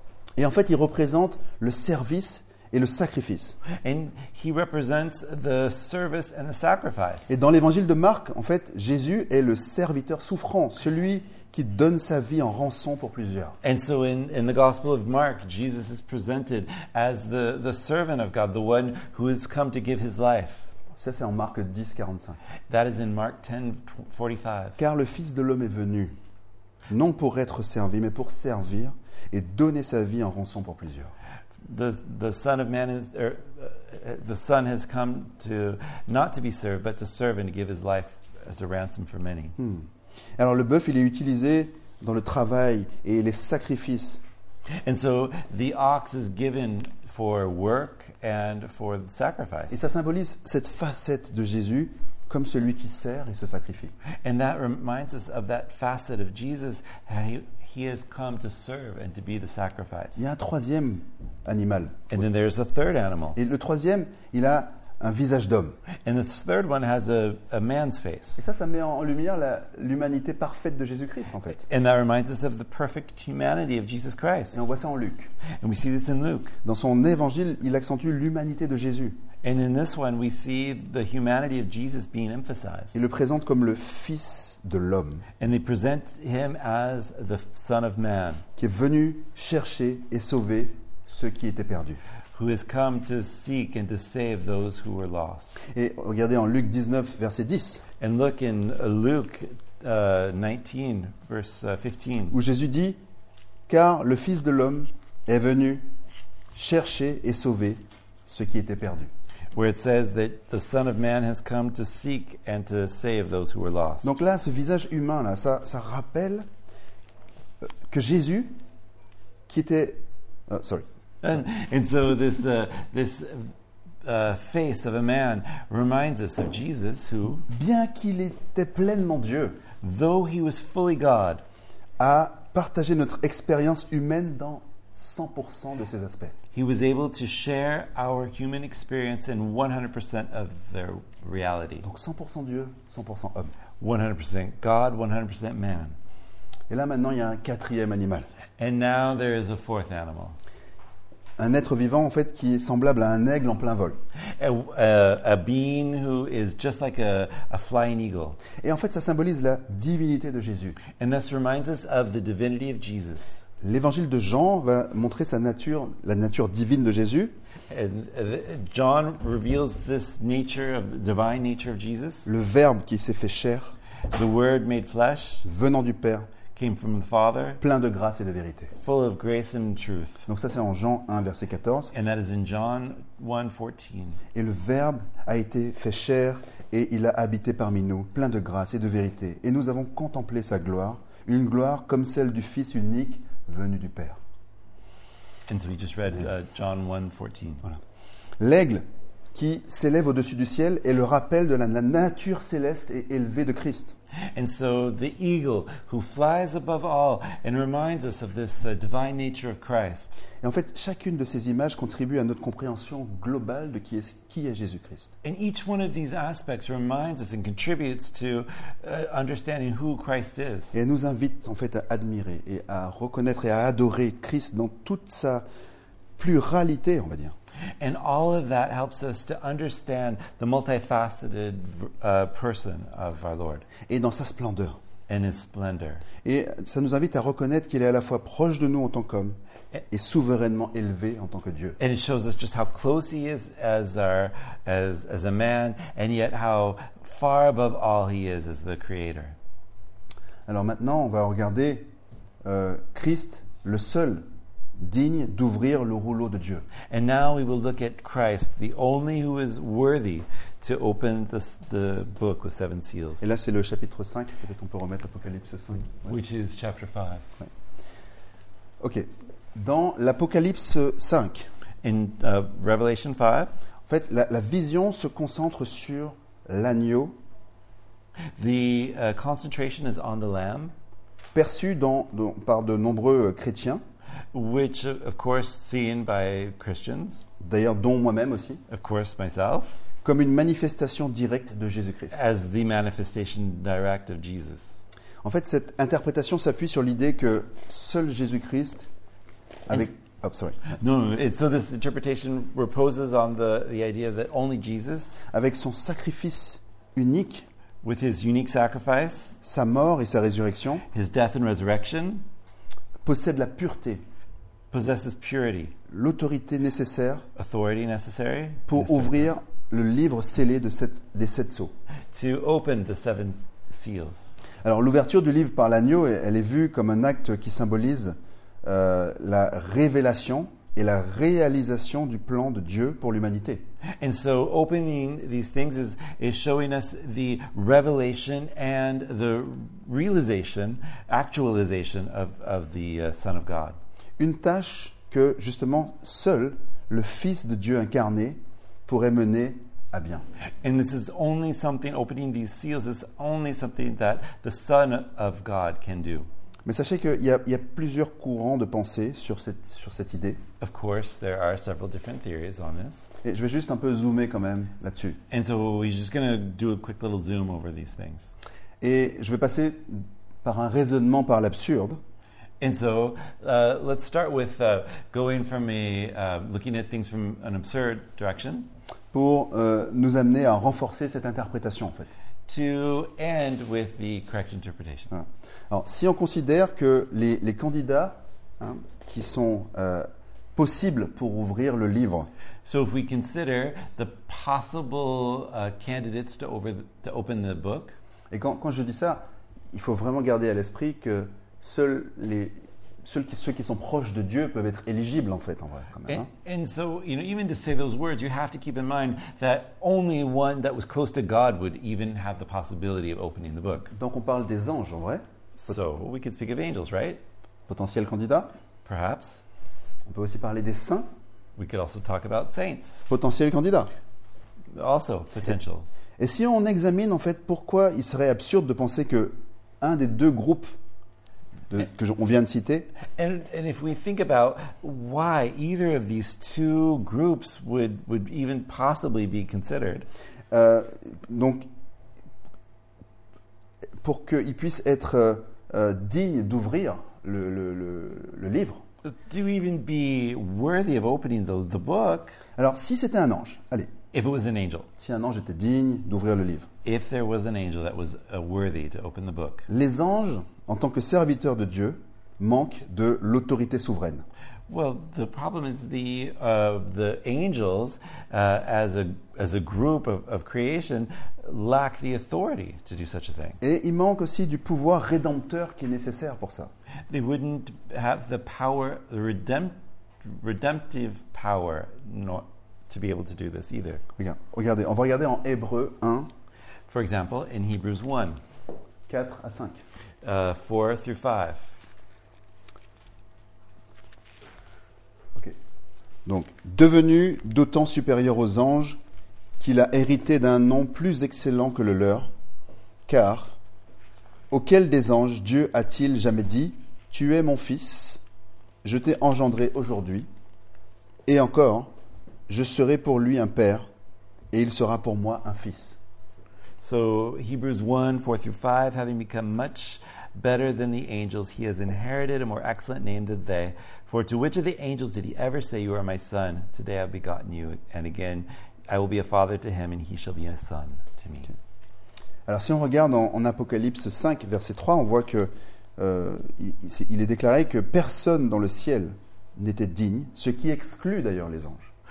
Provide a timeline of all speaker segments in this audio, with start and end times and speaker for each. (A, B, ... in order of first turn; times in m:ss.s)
0:00.4-0:03.6 A
0:03.7-0:07.4 B
0:07.3-0:13.6 A
0:13.6-0:20.7 B
0:21.0-0:22.4 A
0:22.7-0:24.8 B
0:24.8-0:26.2 A
0:26.9-0:31.1 A
0:31.6-0:39.6 B
0:39.6-0:44.2 A
0:44.8-0:49.8 B
0:49.7-0:53.9 A
0:54.2-1:00.3 B
1:00.2-1:02.2 A
1:02.1-1:03.4 B
1:03.4-1:05.8 A
1:06.0-1:08.4 B
1:08.4-1:11.6 A
1:11.6-1:14.6 B
1:14.5-1:15.3 A
1:15.6-1:16.6 B
1:16.6-1:19.2 A
1:19.4-1:23.0 B
1:22.9-1:25.2 A
1:25.4-1:28.4 B
1:28.6-1:32.0 A
1:32.3-1:35.6 B
1:35.7-1:37.8 A
1:38.0-1:42.4 B
1:42.3-1:43.0 A
1:43.7-1:45.8 A
1:46.5-1:49.1 A
1:49.5-1:54.1 B
1:54.0-1:56.5 A
1:57.9-1:58.6 A
1:59.5-2:00.9 A
2:01.2-2:03.5 B
2:04.0-2:07.5 B
2:07.5-2:09.6 A
2:09.8-2:11.4 B
2:12.0-2:16.4 A
2:16.5-2:21.9 B
2:21.8-2:23.5 A
2:23.8-2:26.0 B
2:26.7-2:28.3 A
2:28.6-2:30.4 B
2:31.4-2:34.0 A
2:34.4-2:38.4 B
2:38.6-2:40.8 A
2:41.0-2:43.5 B
2:43.6-2:47.4 A
2:47.7-2:52.3 B
2:52.3-2:53.8 A
2:54.1-2:55.4 B
2:55.4-2:56.3 A
2:56.5-2:57.6 B
2:57.6-2:58.7 A
2:58.7-3:00.3 B
3:00.3-3:01.9 A
3:01.9-3:04.2 B
3:04.3-3:14.2 A
3:15.5-3:17.7 B
3:18.4-3:23.9 A
3:24.3-3:30.2 B
3:30.4-3:35.1 A
3:35.2-3:40.8 B
3:40.7-3:45.4 A
3:46.2-3:47.4 A
3:47.8-3:53.7 B
3:53.9-3:54.8 A
3:55.1-3:56.0 B
3:56.2-3:59.4 A
3:59.9-4:01.8 A
4:01.8-4:09.4 B
4:10.5-4:11.9 A
4:12.4-4:14.2 A
4:14.8-4:16.7 A
4:16.9-4:23.4 B
4:23.2-4:26.1 A
4:26.0-4:27.2 B
4:28.8-4:31.5 A
4:31.8-4:33.5 B
4:33.9-4:37.2 A
4:38.4-4:40.7 B
4:41.3-4:43.8 A
4:44.3-4:47.3 B
4:47.4-4:48.6 A
4:48.7-4:49.8 B
4:50.0-4:52.2 A
4:52.1-4:54.8 B
4:55.2-4:58.9 A
4:59.7-5:00.8 A
5:00.7-5:05.3 B
5:05.3-5:07.5 A
5:07.8-5:09.4 B
5:09.4-5:10.8 A
5:10.9-5:12.2 B
5:13.0-5:14.0 A
5:14.7-5:15.7 B
5:15.9-5:17.2 A
5:17.4-5:19.3 B
5:18.7-5:21.7 A
5:22.1-5:24.4 B
5:24.6-5:33.6 A
5:34.0-5:43.8 B
5:44.2-5:50.3 A
5:50.6-5:56.3 B
5:56.7-6:00.4 A
6:00.6-6:03.1 B
6:03.2-6:05.2 A
6:05.3-6:08.3 B
6:08.8-6:12.0 A
6:12.6-6:18.7 B
6:19.1-6:22.1 A
6:22.5-6:25.1 B
6:25.1-6:32.3 A
6:32.6-6:38.0 B
6:38.3-6:46.3 A
6:46.1-6:53.9 B
6:53.9-6:55.2 A
6:55.6-6:57.2 B
6:57.7-6:58.5 A
6:58.8-6:59.4 B
7:00.1-7:01.1 A
7:01.6-7:03.0 B
7:03.1-7:03.9 A
7:04.7-7:06.0 B
7:06.2-7:10.7 A
7:11.7-7:12.9 A
7:13.2-7:20.1 B
7:20.5-7:21.7 A
7:24.0-7:28.8 A
7:29.0-7:32.4 B
7:32.6-7:33.9 A
7:34.1-7:34.9 B
7:35.0-7:36.7 A
7:36.8-7:39.7 B
7:39.7-7:44.2 A
7:44.7-7:53.6 B
7:53.6-7:56.7 A
7:57.1-8:04.0 B
8:04.2-8:06.3 A
8:06.9-8:08.4 B
8:09.1-8:09.8 A
8:10.2-8:11.8 B
8:16.3-8:19.0 A
8:19.6-8:22.3 A
8:23.1-8:23.6 A
8:24.5-8:28.2 A
8:28.8-8:30.3 A
8:31.3-8:31.9 A
8:32.5-8:33.9 A
8:34.5-8:36.0 A
8:36.8-8:51.5 B
8:52.5-9:01.9 A